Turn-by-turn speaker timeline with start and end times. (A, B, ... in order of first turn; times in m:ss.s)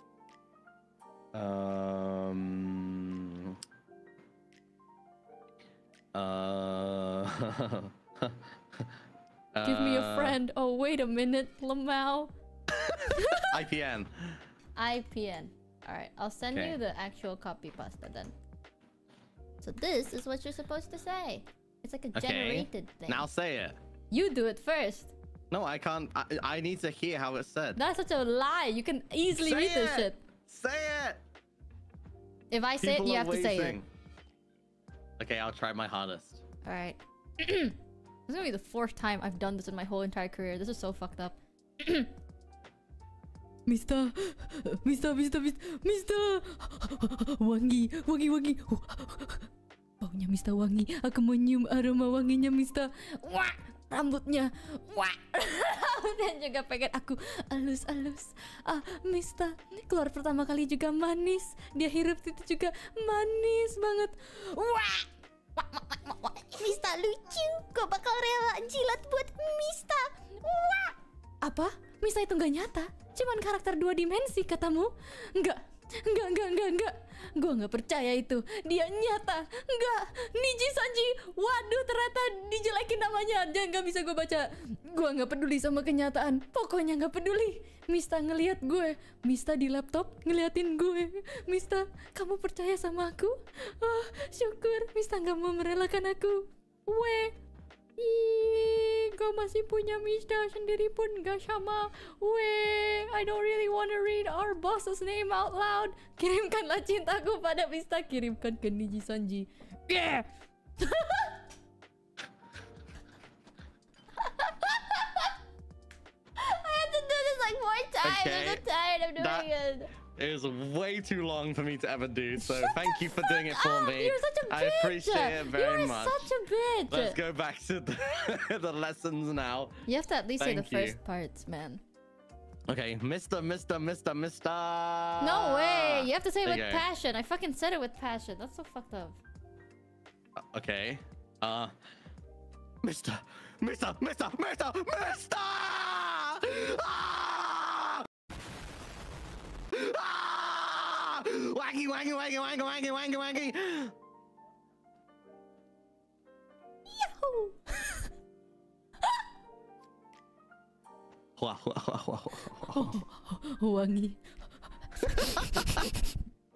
0:01.3-0:03.6 A
0:06.1-0:08.3 A
0:09.5-0:10.4 A
0:09.6-0:12.3 B
0:12.8-0:14.4 A
0:13.1-0:13.5 B
0:14.8-0:18.3 B
0:19.6-0:23.3 B
0:22.1-0:23.8 A
0:24.1-0:25.1 B
0:25.5-0:27.8 A
0:27.8-0:30.2 B
0:29.3-0:31.2 A
0:32.5-0:33.8 B
0:32.8-0:33.8 A
0:35.2-0:36.4 A
0:36.6-0:37.8 B
0:38.3-0:42.1 B
0:43.6-1:37.3 B
1:38.0-1:50.3 B
1:50.8-1:51.4 B
1:54.2-1:55.3 B
1:56.4-1:59.9 B
1:58.0-1:58.6 A
1:59.2-1:59.5 A
2:00.1-2:06.3 A
2:02.4-2:07.2 B
2:06.9-2:09.8 A
2:09.8-2:11.8 B
2:10.4-2:11.0 A
2:12.7-2:16.8 A
2:15.2-2:19.2 B
2:20.5-2:21.7 A
2:22.8-2:28.1 A
2:29.7-2:33.9 A
2:36.9-2:38.1 B
2:41.4-2:43.0 A
2:42.6-2:44.2 B
2:44.9-2:46.2 B
2:45.0-2:45.8 A